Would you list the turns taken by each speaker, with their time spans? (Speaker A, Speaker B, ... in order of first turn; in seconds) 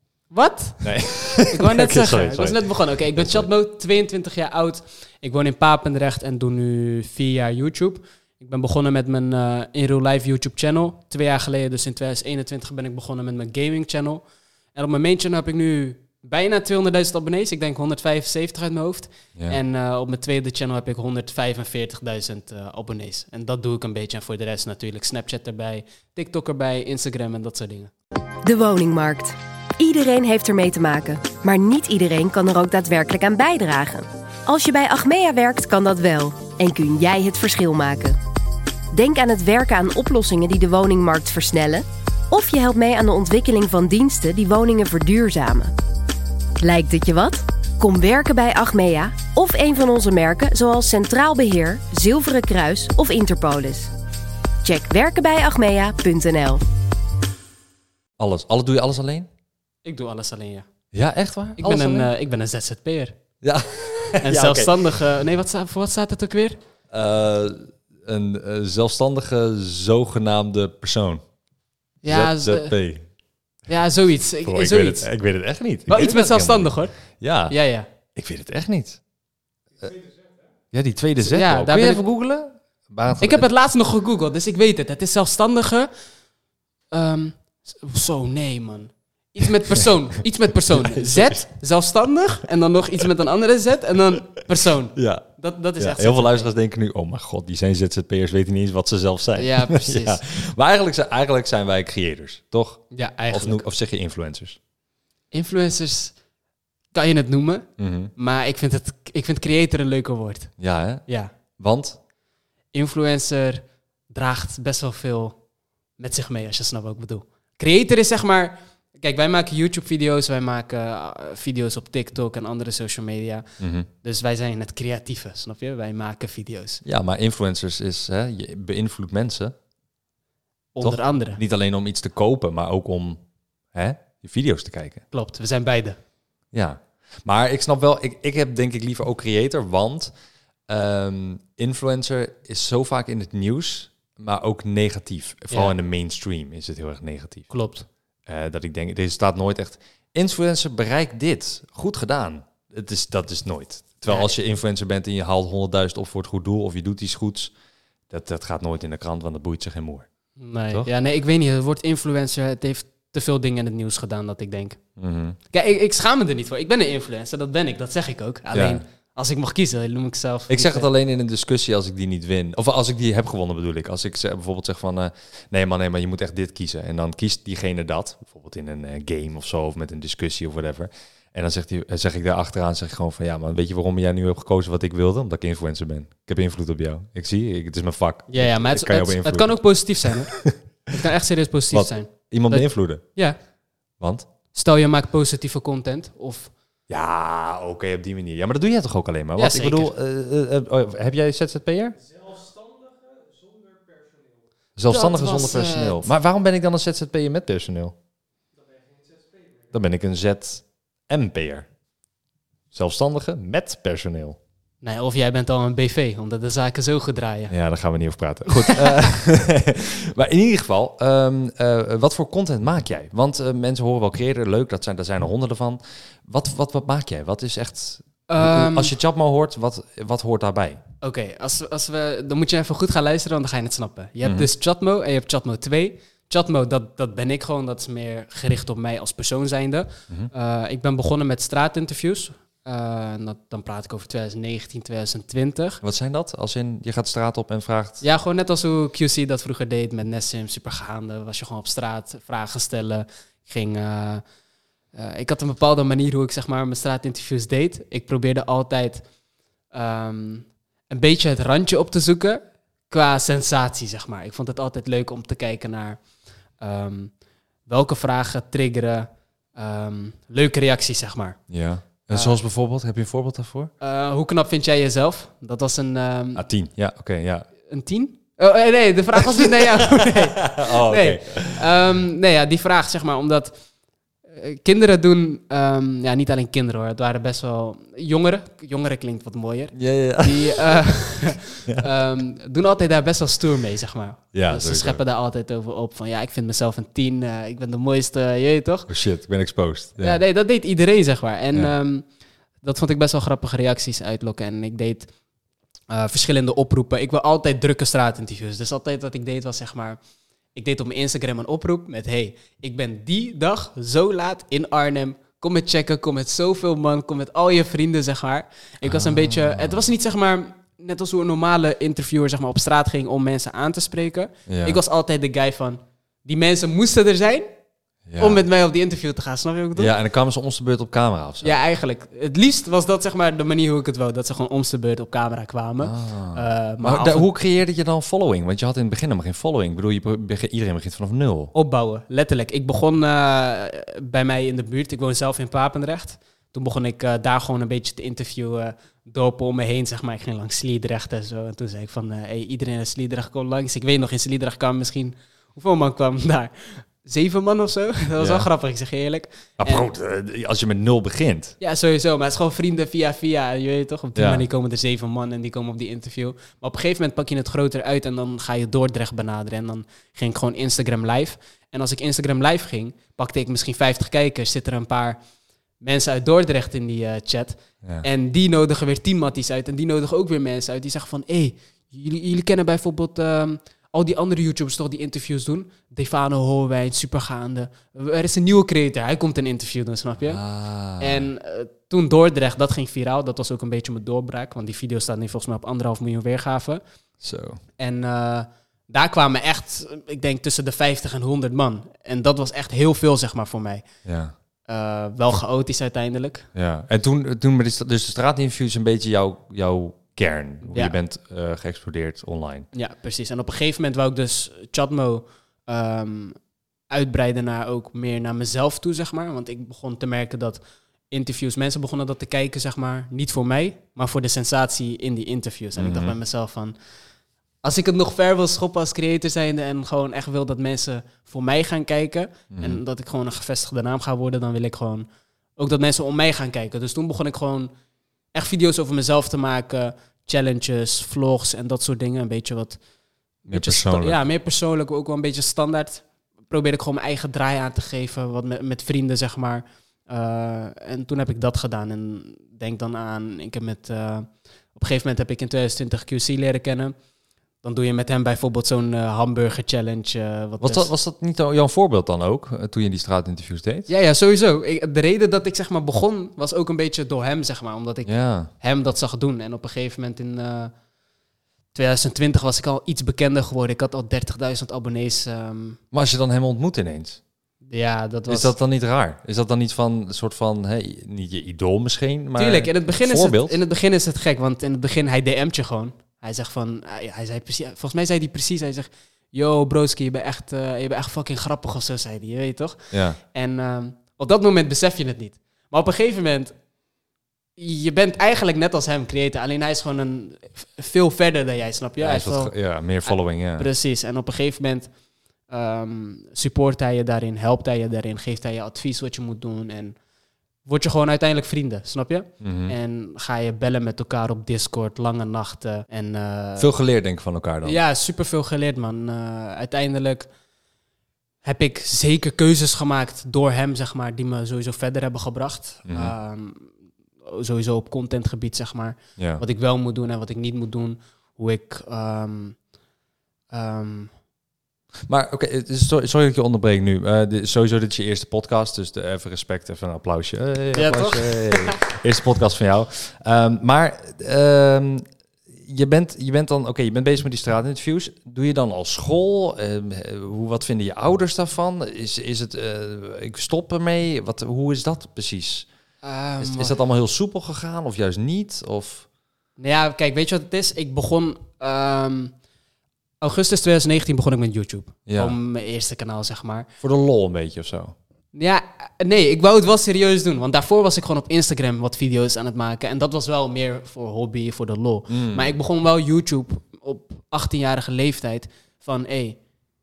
Speaker A: 0.3-14.2, 14.7-27.9, 59.8-60.7, 61.6-63.1, 64.2-66.6, 72.0-72.8, 73.7-75.1, 75.9-77.9, 81.2-82.0, 83.2-85.9, 86.9-96.5, 99.4-100.2, 102.9-103.6, 105.3-106.1, 106.9-110.5, 112.7-115.3, 116.0-126.8, 130.7-131.4, 135.1-136.0, 147.5-147.8, 160.4-164.8, 165.5-170.9, 188.3-193.4, 194.5-196.5, 199.4-199.9, 204.9-206.1, 214.8-217.5, 218.5-219.1, 228.3-228.9, 231.0-245.8, 248.0-254.2, 254.9-259.0, 259.7-266.0, 266.6-267.1, 267.7-271.4, 272.1-272.4, 273.8-276.4, 277.7-283.6, 284.3-298.9, 300.0-302.0, 302.6-305.1, 305.9-310.0, 310.5-327.5, 328.2-329.9, 331.4-337.3, 341.5-359.9, 361.6-375.2, 375.8-390.4, 391.0-396.8, 397.8-403.8, 404.7-406.5, 410.7-410.9, 412.7-416.4, 416.9-426.8, 427.6-437.7, 438.3-442.8, 443.5-456.9, 457.6-460.9, 463.9-470.7, 471.7-475.8, 477.7-478.5, 482.4-496.5, 497.6-502.5, 503.1-504.9, 505.5-509.9, 510.6-516.7, 517.6-520.3, 521.4-526.7, 527.2-532.6, 533.5-534.1, 540.7-541.8, 556.0-556.7, 559.6-562.3, 563.2-566.7, 568.3-579.4
Speaker B: 0.8-3.5, 58.2-59.3, 60.9-62.1, 63.4-64.8, 66.9-71.2, 72.1-73.0, 74.4-77.5, 78.1-79.0, 80.7-83.4, 90.7-91.5, 94.9-95.2, 95.8-104.6, 107.8-108.1, 110.6-111.0, 111.6-112.0, 123.6-123.9, 126.8-129.5, 130.8-133.2, 133.7-135.0, 136.5-140.1, 140.7-147.5, 148.3-157.5, 158.1-160.1, 165.0-165.4, 168.5-168.8, 170.5-189.5, 190.3-190.6, 191.7-193.0, 194.0-194.3, 196.9-202.0, 204.8-207.9, 209.7-211.7, 212.7-214.4, 217.5-230.8, 234.2-234.5, 245.8-248.0, 271.5-273.7, 276.3-277.5, 279.4-281.6, 289.7-291.1, 294.3-295.0, 298.9-300.2, 318.8-319.8, 324.5-324.8, 328.1-328.4, 329.8-331.5, 335.8-341.5, 358.2-358.5, 359.6-361.5, 364.1-364.4, 390.2-391.3, 397.2-397.6, 404.0-404.3, 406.5-412.7, 425.8-426.1, 432.5-432.8, 443.5-444.1, 460.6-463.9, 468.1-468.5, 475.9-477.2, 478.3-483.6, 492.9-493.2, 502.0-503.7, 512.4-512.7, 516.6-517.8, 525.9-526.1, 529.2-529.4, 535.1-545.0, 545.6-555.6, 556.4-559.0, 565.1-565.3, 566.8-567.9, 575.1-575.5
Speaker C: 28.4-38.2, 38.9-45.7, 46.6-53.9, 54.6-56.6